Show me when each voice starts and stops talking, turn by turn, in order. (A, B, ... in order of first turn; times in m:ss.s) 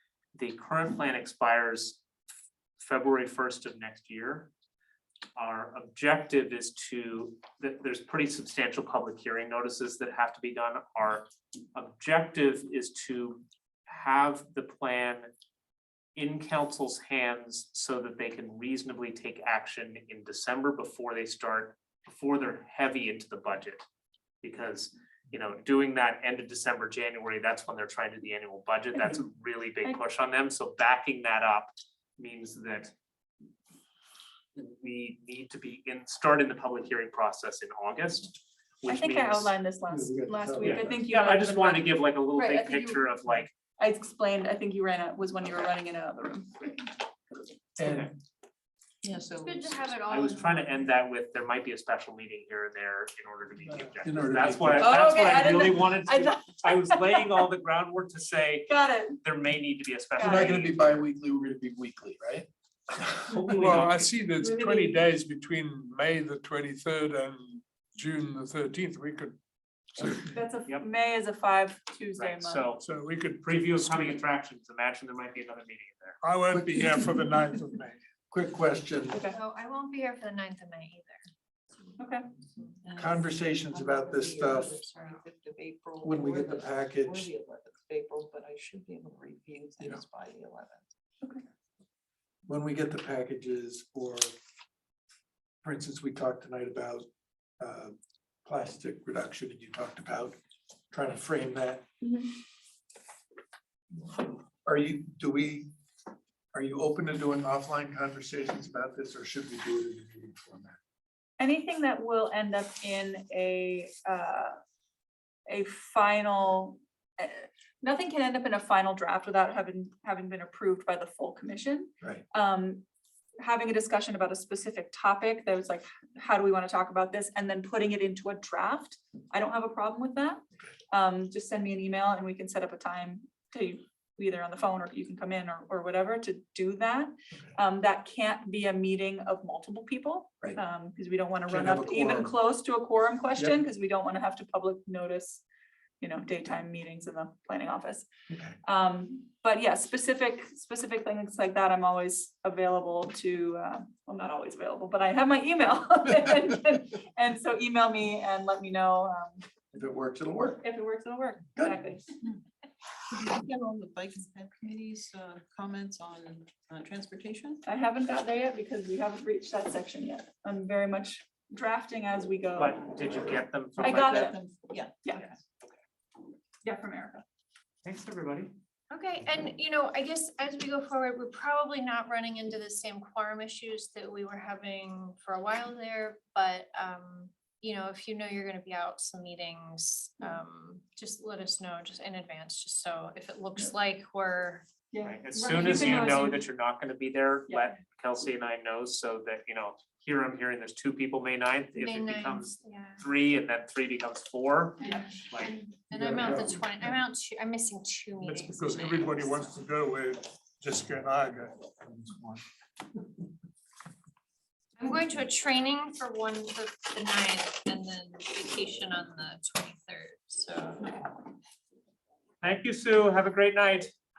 0:00.3-0:02.0 A
0:02.8-0:04.5 A
0:05.4-0:15.3 A
0:16.2-0:23.8 A
0:24.4-0:32.9 A
0:34.5-0:39.5 A
0:38.9-0:43.1 B
0:39.9-0:41.0 C
0:40.6-0:43.5 A
0:43.8-0:46.9 B
0:47.8-0:48.1 C
0:47.8-0:48.1 A
0:49.0-0:49.9 D
0:49.4-0:50.9 E
0:50.0-1:01.0 A
0:53.9-0:55.0 C
0:54.7-0:57.3 B
0:58.7-0:59.2 B
1:00.2-1:00.6 B
1:00.2-1:02.5 C
1:03.0-1:04.3 A
1:03.4-1:09.4 F
1:04.4-1:05.0 B
1:10.0-1:10.3 F
1:10.3-1:12.6 B
1:12.2-1:12.8 A
1:12.8-1:14.2 F
1:13.4-1:16.2 A
1:16.2-1:18.0 F
1:16.5-1:17.1 C
1:18.3-1:19.2 C
1:19.1-1:19.4 B
1:19.3-1:21.3 E
1:22.0-1:22.3 B
1:22.8-1:30.9 D
1:23.0-1:24.8 C
1:24.9-1:25.2 E
1:26.0-1:27.3 C
1:32.5-1:34.3 C
1:35.6-1:37.0 C
1:37.6-1:40.3 C
1:40.9-1:41.8 C
1:42.0-1:42.3 B
1:44.0-1:45.7 C
1:46.5-1:50.8 C
1:51.4-1:54.6 B
1:55.5-2:02.8 B
2:03.4-2:25.4 B
2:21.5-2:22.3 C
2:26.0-2:28.1 B
2:28.3-2:28.5 C
2:28.6-2:39.4 B
2:39.7-2:40.6 C
2:40.6-2:42.0 B
2:41.5-2:41.8 C
2:43.1-2:47.6 D
2:47.6-2:52.8 B
2:52.6-2:54.3 A
2:53.8-2:55.3 B
2:54.0-2:55.4 D
2:56.6-2:57.2 B
2:57.8-2:58.5 A
2:58.9-3:14.7 E
3:14.9-3:16.4 B
3:15.0-3:25.5 A
3:17.5-3:17.7 B
3:21.8-3:23.0 E
3:24.8-3:25.1 B
3:24.8-3:29.6 E
3:26.0-3:26.6 C
3:28.2-3:31.6 F
3:32.1-3:32.3 C
3:34.8-3:41.1 E
3:42.4-3:43.9 A